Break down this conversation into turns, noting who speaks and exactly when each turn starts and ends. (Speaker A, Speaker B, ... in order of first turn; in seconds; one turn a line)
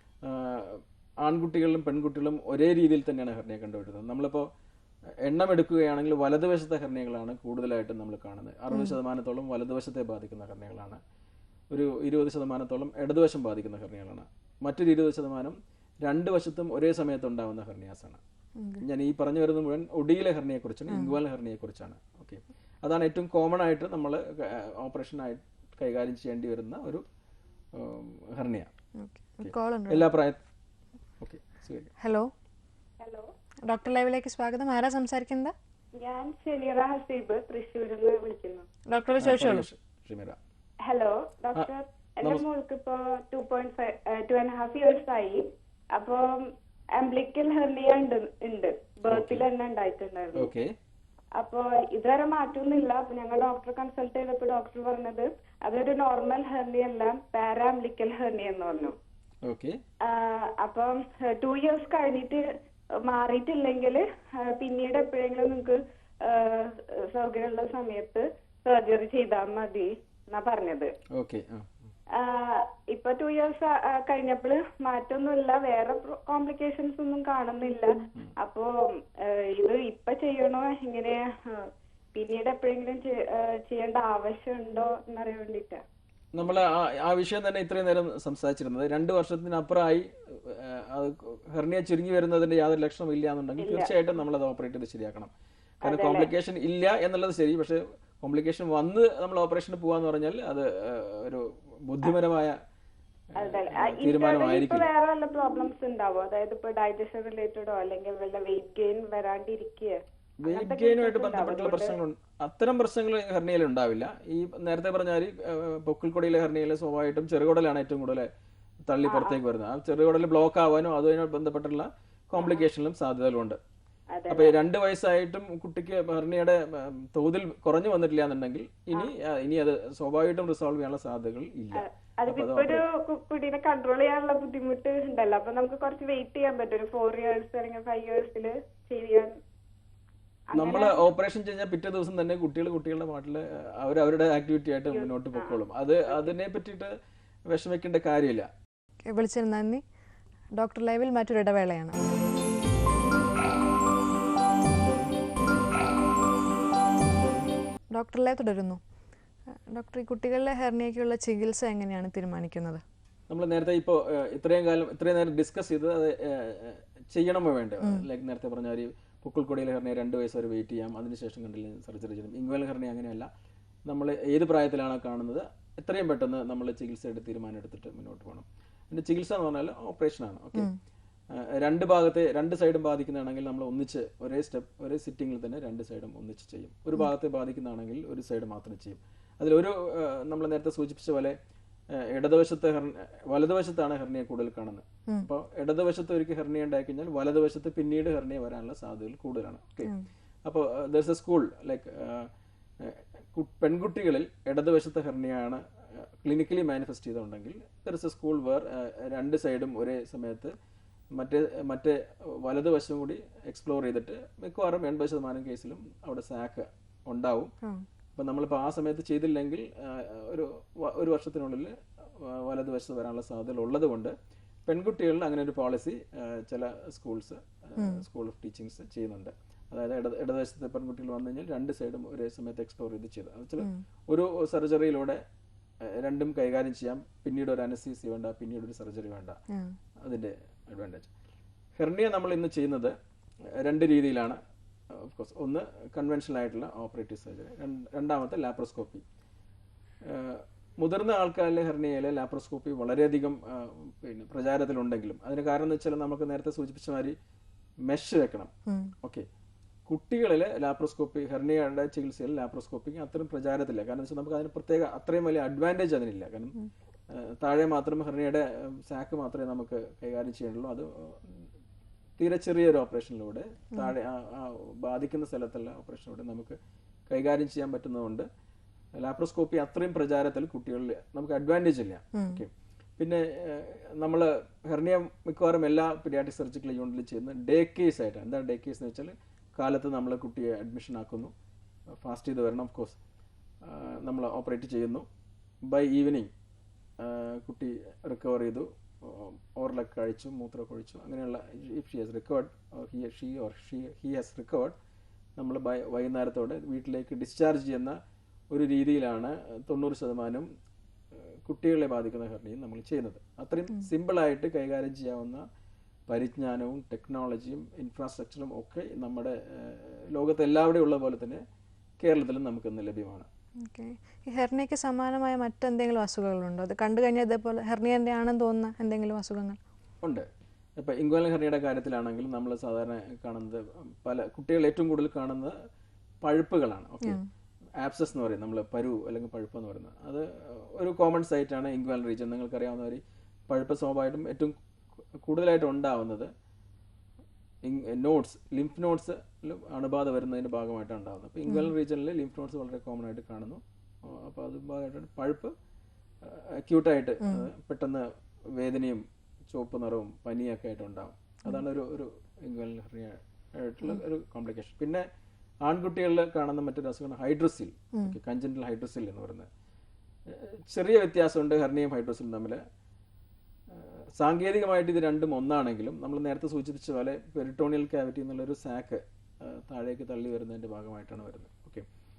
Speaker A: 0.2-4.5
Speaker A: 5.2-11.0
Speaker B: 8.7-9.0
Speaker A: 11.7-18.2
Speaker B: 18.6-18.8
Speaker A: 18.8-27.0
Speaker B: 20.9-21.2
Speaker A: 27.8-28.7
Speaker B: 29.0-30.1
Speaker A: 29.4-30.4
Speaker A: 31.2-31.9
Speaker B: 32.0-32.3
Speaker C: 33.0-33.3
Speaker B: 33.7-35.5
Speaker C: 36.0-38.7
Speaker B: 38.9-39.7
Speaker A: 39.2-40.4
Speaker C: 40.8-50.5
Speaker A: 49.1-49.5
Speaker A: 50.4-50.7
Speaker C: 51.4-59.0
Speaker A: 59.4-59.8
Speaker C: 60.0-62.5
Speaker C: 63.0-70.9
Speaker A: 71.1-71.9
Speaker C: 72.1-85.8
Speaker A: 86.3-95.3
Speaker C: 93.6-93.9
Speaker A: 95.8-102.5
Speaker C: 95.9-96.3
Speaker A: 103.4-104.9
Speaker C: 103.4-112.0
Speaker A: 110.4-118.3
Speaker A: 118.9-123.6
Speaker C: 119.1-119.4
Speaker C: 122.4-122.7
Speaker C: 124.1-124.6
Speaker A: 124.3-132.8
Speaker C: 131.8-139.3
Speaker A: 140.5-146.9
Speaker C: 140.5-141.0
Speaker C: 144.9-146.3
Speaker A: 147.5-148.5
Speaker B: 149.1-149.8
Speaker B: 150.6-152.0
Speaker B: 157.9-158.8
Speaker B: 159.7-162.8
Speaker A: 163.3-173.3
Speaker A: 173.9-180.7
Speaker A: 181.6-191.4
Speaker A: 192.0-199.9
Speaker A: 200.4-202.3
Speaker A: 202.8-210.5
Speaker A: 211.1-217.5
Speaker A: 218.2-224.2
Speaker A: 224.7-235.2
Speaker B: 227.8-228.0
Speaker A: 235.8-239.4
Speaker A: 240.0-241.1
Speaker A: 241.8-242.9
Speaker A: 243.6-244.4
Speaker A: 244.9-249.0
Speaker A: 250.1-257.1
Speaker A: 257.9-258.5
Speaker B: 258.7-258.9
Speaker A: 259.9-266.6
Speaker A: 267.2-271.4
Speaker A: 272.2-276.6
Speaker A: 277.1-278.3
Speaker A: 279.0-291.3
Speaker B: 282.1-282.4
Speaker A: 292.0-293.0
Speaker A: 293.6-295.1
Speaker A: 295.7-296.3
Speaker A: 297.0-304.8
Speaker A: 305.4-308.0
Speaker A: 308.5-310.5
Speaker A: 311.4-315.4
Speaker A: 316.1-321.4
Speaker A: 322.0-323.3
Speaker B: 323.6-329.6
Speaker A: 330.0-330.3
Speaker A: 330.8-335.5
Speaker A: 336.2-337.2
Speaker A: 337.8-344.6
Speaker A: 345.2-346.3
Speaker A: 347.6-355.5
Speaker A: 356.2-365.0
Speaker B: 357.2-357.5
Speaker A: 365.6-369.5
Speaker A: 370.3-372.6
Speaker A: 373.7-381.9